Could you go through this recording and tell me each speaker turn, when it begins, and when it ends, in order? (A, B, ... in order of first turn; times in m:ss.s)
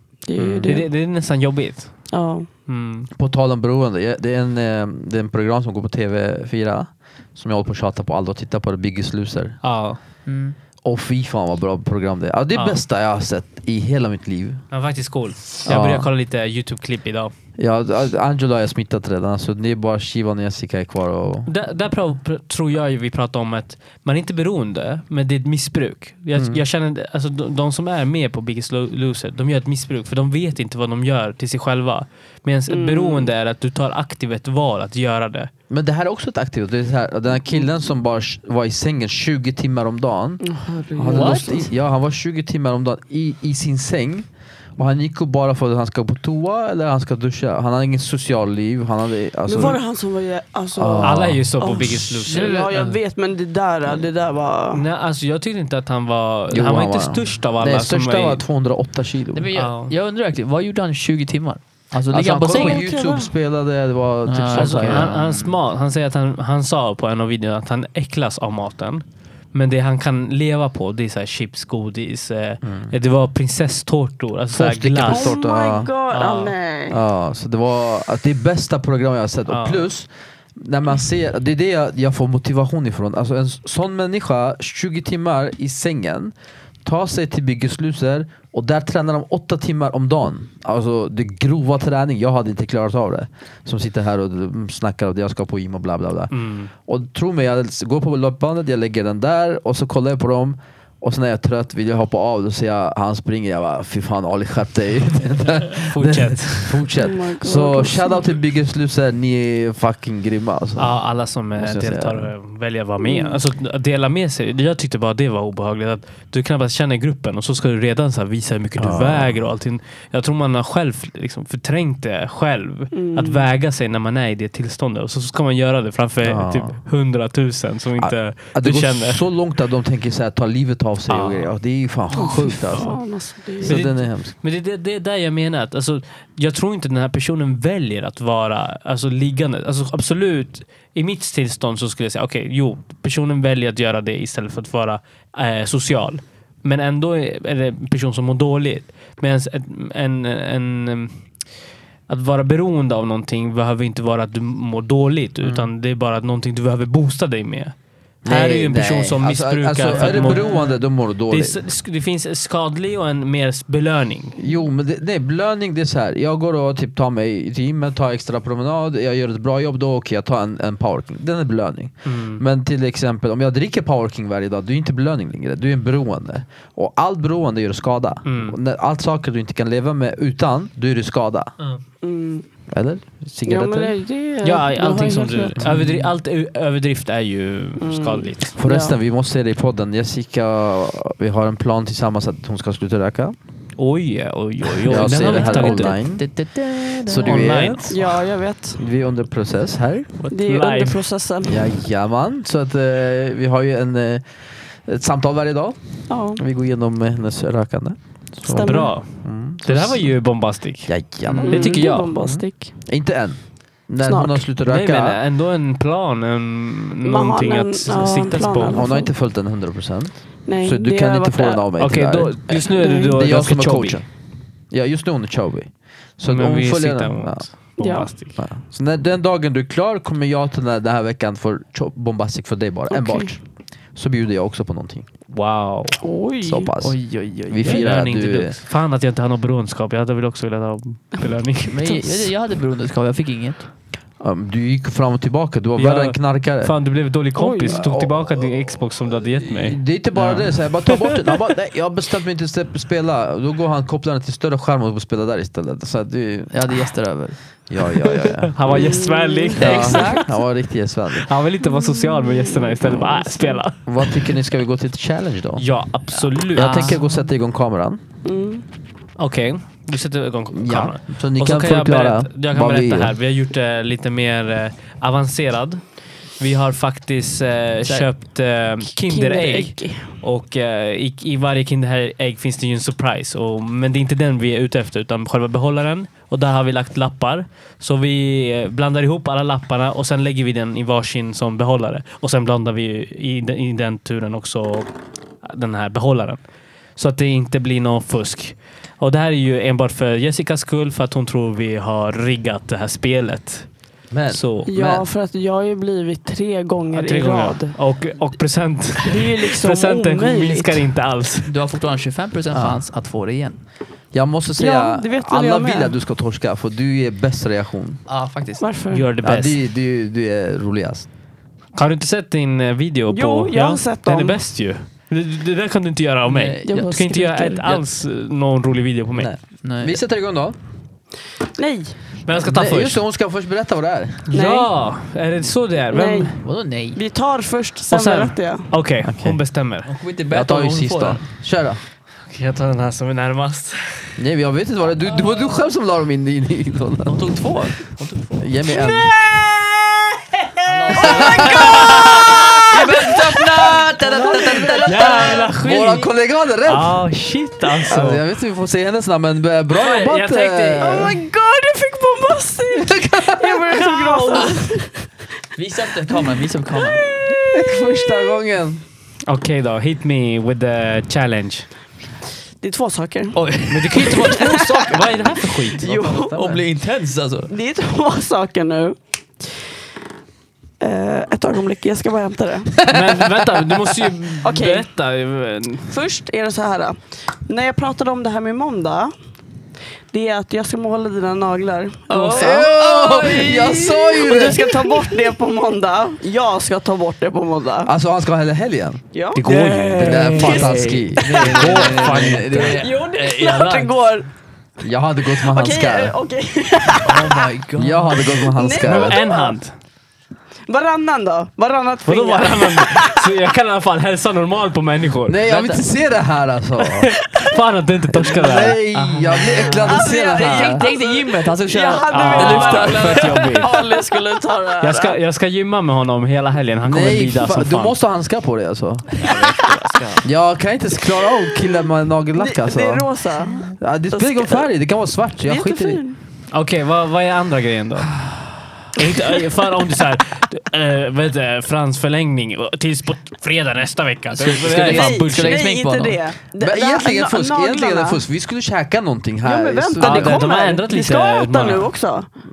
0:00.2-0:00.9 A
0:00.4-0:00.7 B
0:00.6-0:02.1 C
0:02.1-0:02.5 A
0:02.7-0:03.1 C
0:03.1-0:09.6 B
0:09.6-0:10.0 C
0:10.2-0:10.6 D
0:10.8-0:14.6 B
0:12.5-0:12.8 C
0:14.7-0:17.3 C
0:15.6-0:16.1 B
0:17.6-0:21.5 B
0:21.5-0:35.5 C
0:26.3-0:26.6 B
0:32.7-0:33.3 A
0:35.7-0:40.4 B
0:40.4-0:41.7 A
0:41.0-0:49.8 B
0:41.1-0:41.6 D
0:49.5-0:54.8 A
0:50.8-0:51.6 B
0:51.0-0:52.8 C
0:52.2-0:52.9 D
0:54.7-0:58.4 C
0:56.5-0:59.5 B
0:59.3-1:02.8 D
0:59.5-0:59.9 C
1:02.1-1:05.1 B
1:02.5-1:03.3 A
1:04.2-1:05.5 D
1:04.5-1:15.4 C
1:14.5-1:15.9 B
1:15.0-1:17.0 A
1:16.1-1:16.5 C
1:16.9-1:26.3 B
1:19.5-1:19.8 C
1:26.8-1:36.3 B
1:36.3-1:36.7 C
1:36.8-1:50.9 B
1:45.8-1:46.9 C
1:47.0-1:48.3 A
1:50.8-2:09.2 C
1:51.6-1:52.3 B
1:53.0-1:53.4 A
1:58.8-1:59.4 B
2:02.9-2:03.4 A
2:06.2-2:06.8 B
2:08.0-2:13.0 B
2:11.1-2:11.5 C
2:12.1-2:13.8 A
2:13.6-2:14.3 B
2:13.6-2:31.2 C
2:32.1-2:37.7 C
2:35.4-2:35.7 B
2:38.2-2:41.6 B
2:38.3-2:40.6 C
2:40.0-2:40.6 D
2:40.1-2:40.7 A
2:41.2-2:44.4 C
2:44.4-3:01.5 B
2:52.0-2:52.4 C
2:58.2-2:58.6 C
3:02.0-3:02.4 A
3:02.7-3:03.9 B
3:03.4-3:05.6 A
3:04.4-3:08.5 C
3:05.6-3:06.1 B
3:07.8-3:09.0 A
3:08.6-3:13.4 B
3:13.8-3:15.9 C
3:14.8-3:16.3 B
3:14.9-3:17.5 D
3:17.0-3:18.1 B
3:17.2-3:18.0 C
3:17.9-3:18.8 A
3:18.7-3:20.1 B
3:20.3-3:21.7 A
3:20.4-3:21.0 C
3:21.4-3:24.2 B
3:24.8-3:25.8 B
3:26.1-3:26.4 A
3:26.3-3:30.2 B
3:28.4-3:28.9 A
3:28.6-3:32.1 C
3:30.9-3:35.2 B
3:31.4-3:32.7 A
3:34.0-3:34.4 A
3:34.6-3:38.9 C
3:37.0-3:39.1 A
3:38.7-3:44.0 B
3:40.4-3:41.7 A
3:41.8-3:44.0 C
3:42.5-3:43.2 A
3:44.7-3:47.4 B
3:46.3-3:48.4 C
3:47.8-3:48.1 A
3:48.4-3:53.4 B
3:52.9-3:53.3 A
3:53.9-3:55.1 B
3:55.3-3:56.0 C
3:56.0-3:56.7 A
3:56.4-3:58.6 B
3:56.8-3:57.9 D
3:57.6-4:02.3 C
4:01.7-4:03.7 D
4:04.2-4:06.7 B
4:05.8-4:09.8 C
4:07.4-4:07.8 A
4:07.7-4:08.5 B
4:09.4-4:16.8 B
4:10.1-4:10.5 D
4:10.9-4:11.2 C
4:16.5-4:17.4 D
4:17.7-4:18.6 B
4:18.4-4:20.2 C
4:18.6-4:20.2 A
4:19.6-4:21.3 B
4:19.6-4:20.2 D
4:21.1-4:24.3 C
4:21.6-4:23.6 A
4:23.8-4:25.6 B
4:25.6-4:27.0 C
4:26.1-4:27.0 D
4:26.5-4:28.0 B
4:28.2-4:28.6 A
4:29.2-4:54.9 C
4:30.5-4:33.1 B
4:39.0-4:40.1 A
4:55.4-4:56.4 C
4:57.0-5:03.7 C
5:04.1-5:05.0 B
5:04.3-5:04.7 C
5:04.7-5:07.8 A
5:06.9-5:11.5 C
5:09.0-5:10.8 A
5:11.4-5:13.6 D
5:12.5-5:12.8 B
5:14.1-5:18.0 B
5:14.6-5:15.9 A
5:18.1-5:18.7 D
5:18.6-5:19.0 A
5:18.9-5:19.6 C
5:19.2-5:21.1 B
5:21.7-5:29.3 C
5:23.1-5:24.4 A
5:26.2-5:27.8 D
5:26.7-5:27.6 A
5:29.1-5:30.6 B
5:29.6-5:30.0 D
5:31.6-5:32.0 A
5:32.2-5:33.0 C
5:32.3-5:34.3 B
5:34.3-5:36.4 C
5:34.3-5:34.7 A
5:35.9-5:36.4 A
5:36.4-5:37.0 D
5:36.9-5:38.7 A
5:37.9-5:39.9 C
5:39.0-5:39.4 B
5:39.8-5:41.2 D
5:40.3-5:41.8 B
5:42.3-5:44.2 C
5:44.2-5:47.2 B
5:47.0-5:48.4 D
5:48.4-5:49.2 B
5:50.4-5:52.7 C
5:50.6-5:51.9 D
5:51.0-5:53.2 A
5:51.0-5:52.6 B
5:52.7-5:55.4 D
5:53.6-5:57.0 B
5:54.0-5:55.4 A
5:54.8-5:56.1 C
5:56.6-5:58.2 C
5:57.8-6:01.1 B
5:59.7-6:01.1 C
6:00.8-6:05.1 A
6:02.7-6:03.6 B
6:03.7-6:04.6 C
6:05.5-6:07.0 D
6:07.0-6:08.3 A
6:07.4-6:08.8 B
6:09.3-6:11.7 C
6:12.6-6:13.4 A
6:13.3-6:17.5 D
6:13.7-6:15.8 C
6:13.9-6:14.7 A
6:15.8-6:16.6 A
6:17.5-6:19.6 A
6:20.8-6:22.7 A
6:22.8-6:23.4 B
6:22.8-6:25.9 C
6:24.4-6:24.8 A
6:25.9-6:29.1 A
6:30.1-6:37.9 A
6:32.3-6:35.0 B
6:33.2-6:33.6 D
6:37.8-6:42.8 B
6:39.1-6:41.7 A
6:39.4-6:42.8 C
6:41.2-6:43.9 D
6:42.8-6:44.3 A
6:44.8-6:46.1 B
6:45.4-6:47.4 A
6:47.0-6:48.3 D
6:47.8-6:49.2 B
6:48.4-6:49.6 A
6:48.8-6:49.7 C
6:50.7-6:53.3 A
6:52.0-6:55.4 C
6:55.2-6:57.1 B
6:55.4-6:55.8 D
6:57.0-6:58.8 C
6:58.2-7:00.8 B
6:58.9-7:03.7 D
6:59.7-7:05.2 A
7:02.1-7:03.8 C
7:04.8-7:07.9 C
7:06.8-7:09.2 B
7:09.2-7:10.2 C
7:10.2-7:13.1 B
7:12.4-7:14.7 A
7:13.6-7:16.0 B
7:15.4-7:16.2 A
7:16.5-7:18.2 C
7:18.9-7:25.7 C
7:24.3-7:26.2 D
7:24.7-7:28.2 A
7:26.6-7:30.4 B
7:29.4-7:32.3 A
7:30.0-7:31.9 C